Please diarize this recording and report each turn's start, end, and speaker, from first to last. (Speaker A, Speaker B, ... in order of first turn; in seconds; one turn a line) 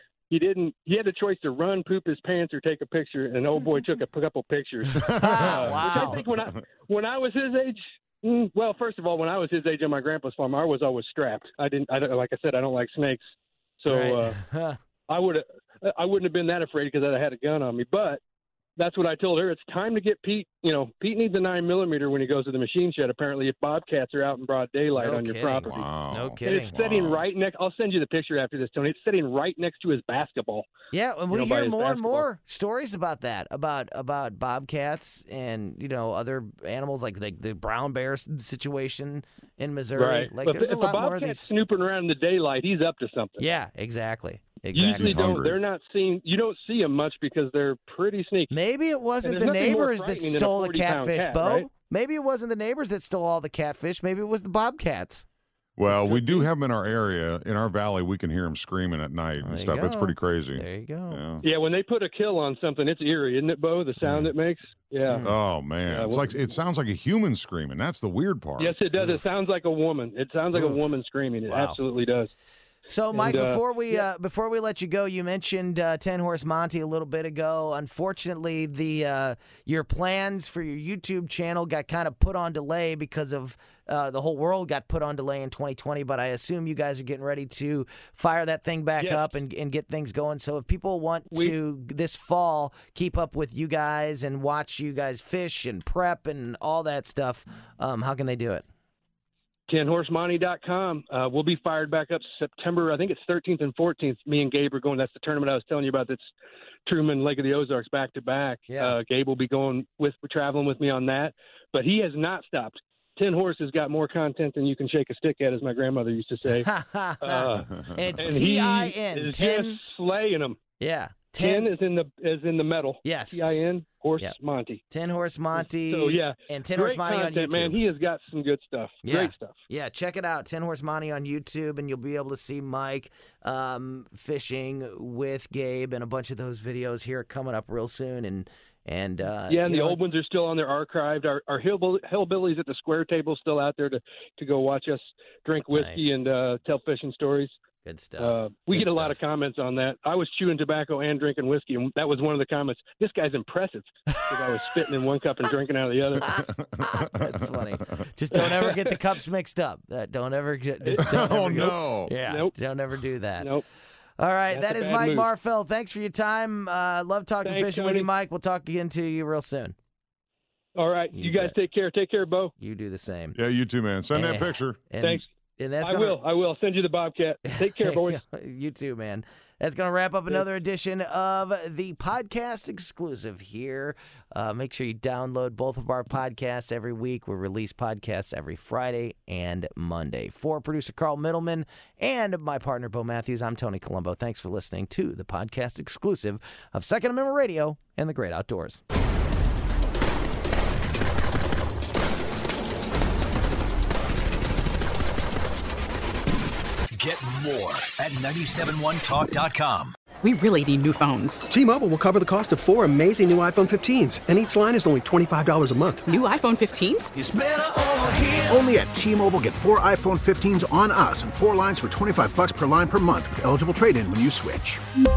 Speaker A: 0.3-14.4
Speaker B: 5.1-6.2
Speaker C: 5.1-6.2
Speaker B: 13.9-14.8
Speaker A: 15.1-18.2
Speaker A: 18.8-25.7
Speaker B: 25.0-26.7
Speaker C: 25.6-27.2
Speaker A: 26.4-30.7
Speaker B: 30.9-41.5
Speaker A: 31.3-32.3
Speaker A: 39.9-43.4
Speaker B: 43.4-45.4
Speaker A: 44.7-48.5
Speaker C: 44.8-45.6
Speaker B: 48.5-55.2
Speaker A: 49.2-51.7
Speaker C: 55.8-61.4
Speaker A: 55.9-56.5
Speaker B: 59.4-61.2
Speaker A: 61.4-65.2
Speaker C: 64.0-64.3
Speaker B: 65.1-65.3
Speaker C: 65.2-68.8
Speaker A: 65.9-66.3
Speaker A: 68.6-72.3
Speaker B: 69.0-69.3
Speaker B: 70.5-70.8
Speaker B: 71.5-71.8
Speaker B: 72.9-98.7
Speaker A: 73.1-74.0
Speaker A: 89.0-89.3
Speaker A: 91.3-91.5
Speaker A: 99.7-106.3
Speaker A: 106.8-120.6
Speaker B: 108.7-109.0
Speaker B: 116.5-119.8
Speaker C: 117.7-118.0
Speaker B: 120.8-121.7
Speaker A: 121.4-124.8
Speaker B: 123.0-123.6
Speaker B: 124.9-127.8
Speaker A: 125.8-129.6
Speaker B: 129.0-140.0
Speaker A: 139.5-147.5
Speaker B: 145.7-146.2
Speaker B: 147.8-149.2
Speaker A: 148.2-156.3
Speaker B: 154.3-154.8
Speaker C: 156.2-157.7
Speaker B: 156.2-163.6
Speaker A: 158.3-158.9
Speaker A: 160.8-162.5
Speaker C: 161.0-162.1
Speaker A: 163.4-163.6
Speaker B: 164.2-169.8
Speaker A: 164.5-165.3
Speaker A: 167.4-168.1
Speaker A: 170.8-172.5
Speaker B: 171.1-171.5
Speaker B: 172.6-173.4
Speaker C: 173.3-174.8
Speaker B: 174.1-176.2
Speaker A: 175.0-175.2
Speaker A: 175.8-178.2
Speaker B: 177.4-198.8
Speaker D: 206.9-209.9
Speaker E: 210.2-211.4
Speaker F: 211.5-216.0
Speaker E: 216.1-217.1
Speaker D: 217.2-224.8